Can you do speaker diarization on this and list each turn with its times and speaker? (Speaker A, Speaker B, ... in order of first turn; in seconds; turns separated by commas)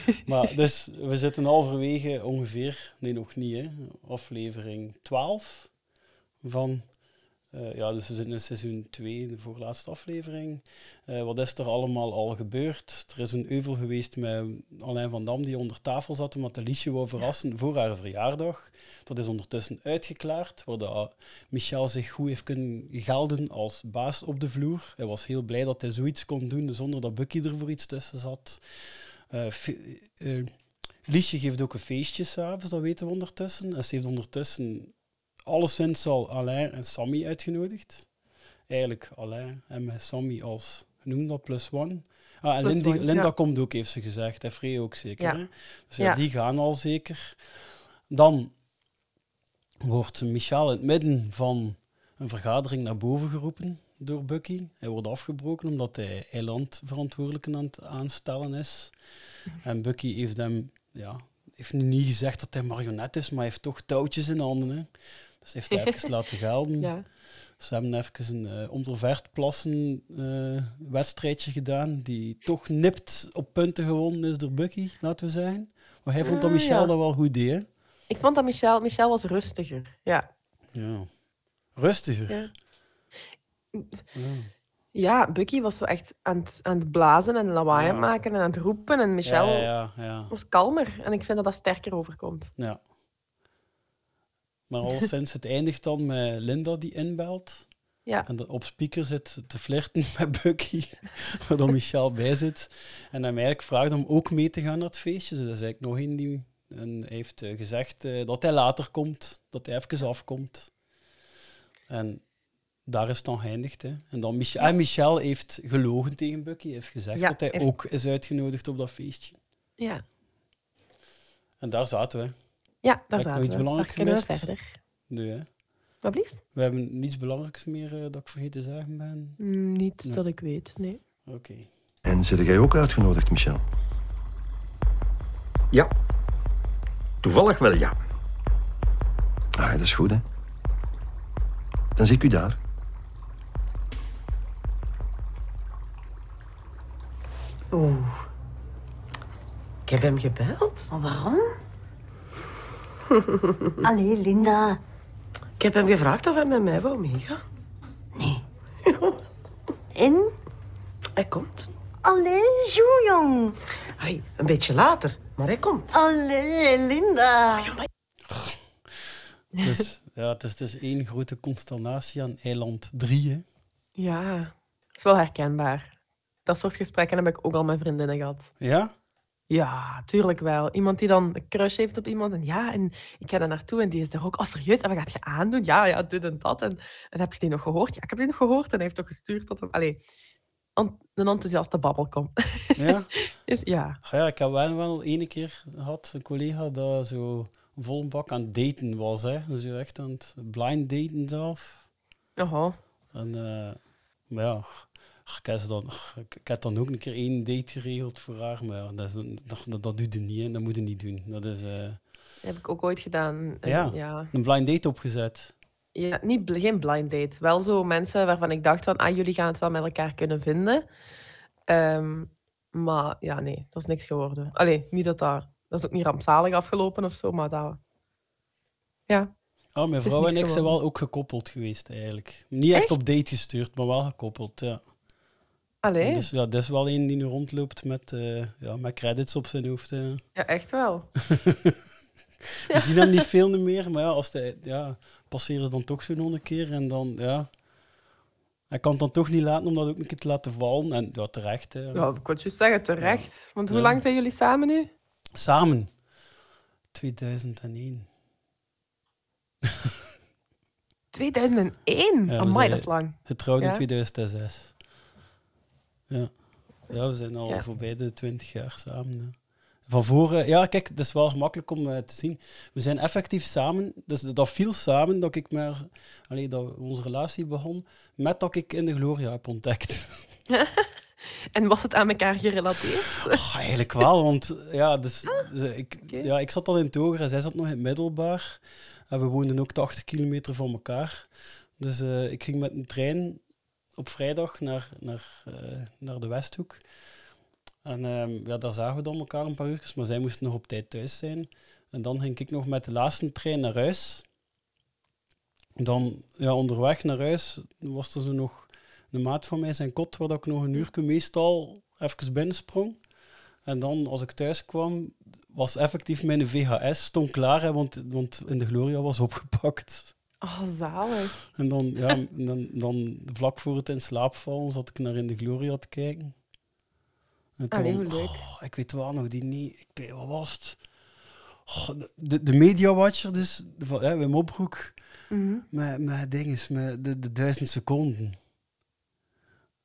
Speaker A: 0.2-5.7, Speaker A: 6.4-6.9, Speaker A: 7.5-30.5, Speaker A: 31.1-38.1, Speaker A: 38.7-47.4, Speaker B: 42.6-43.3, Speaker A: 48.1-48.5, Speaker A: 49.8-59.0, Speaker A: 59.6-77.7, Speaker B: 66.8-67.0, Speaker B: 76.2-76.9, Speaker B: 78.1-80.3, Speaker A: 80.7-81.1, Speaker A: 81.7-82.5, Speaker B: 83.7-84.0, Speaker A: 84.1-84.5, Speaker B: 84.9-89.7, Speaker A: 87.7-88.1, Speaker A: 89.2-90.3, Speaker B: 90.3-92.5, Speaker A: 94.7-97.7, Speaker A: 98.2-110.7, Speaker A: 111.9-112.2, Speaker A: 112.8-119.4, Speaker B: 117.1-117.7, Speaker B: 119.8-120.0, Speaker A: 121.6-122.3, Speaker B: 122.8-124.8, Speaker A: 123.1-124.5, Speaker A: 125.1-125.5, Speaker B: 126.0-126.4, Speaker A: 126.5-129.4, Speaker B: 129.4-131.0, Speaker A: 131.2-131.7, Speaker C: 132.0-133.6, Speaker C: 137.2-137.9, Speaker C: 139.6-140.2, Speaker C: 141.9-142.6, Speaker D: 147.7-148.2, Speaker D: 149.8-150.9, Speaker E: 150.9-151.4, Speaker E: 153.8-154.8, Speaker D: 155.6-157.4, Speaker E: 159.9-160.3, Speaker D: 161.2-161.7, Speaker E: 162.0-163.5, Speaker D: 164.0-165.9, Speaker E: 165.9-167.8, Speaker A: 168.3-173.4, Speaker B: 173.9-175.9, Speaker B: 176.4-178.5, Speaker A: 178.6-178.9, Speaker B: 179.5-190.0, Speaker B: 190.8-194.0, Speaker A: 192.8-193.3, Speaker A: 194.0-201.8, Speaker B: 202.4-202.8, Speaker A: 203.1-212.0, Speaker B: 212.4-214.3, Speaker A: 213.6-215.5, Speaker B: 215.9-220.8, Speaker B: 221.7-227.8, Speaker A: 229.7-234.8, Speaker B: 230.0-230.8, Speaker B: 235.8-236.3, Speaker A: 236.0-240.2, Speaker B: 240.3-241.1, Speaker A: 241.3-241.8, Speaker A: 242.7-247.5, Speaker B: 242.7-243.2, Speaker A: 248.7-252.1, Speaker B: 251.9-254.9, Speaker A: 253.0-254.0, Speaker A: 255.3-255.9, Speaker A: 256.9-258.1, Speaker A: 259.6-259.9, Speaker B: 261.1-263.8, Speaker A: 262.3-264.8, Speaker A: 266.1-280.3, Speaker B: 280.5-280.9, Speaker B: 281.5-283.4, Speaker A: 283.3-293.4, Speaker A: 293.9-296.8, Speaker A: 297.8-304.2, Speaker A: 305.8-313.0, Speaker A: 313.6-320.1, Speaker B: 320.4-321.4, Speaker A: 321.5-326.3, Speaker A: 327.6-330.8, Speaker B: 327.7-328.4, Speaker A: 331.6-335.0, Speaker B: 335.3-335.6, Speaker A: 335.7-338.4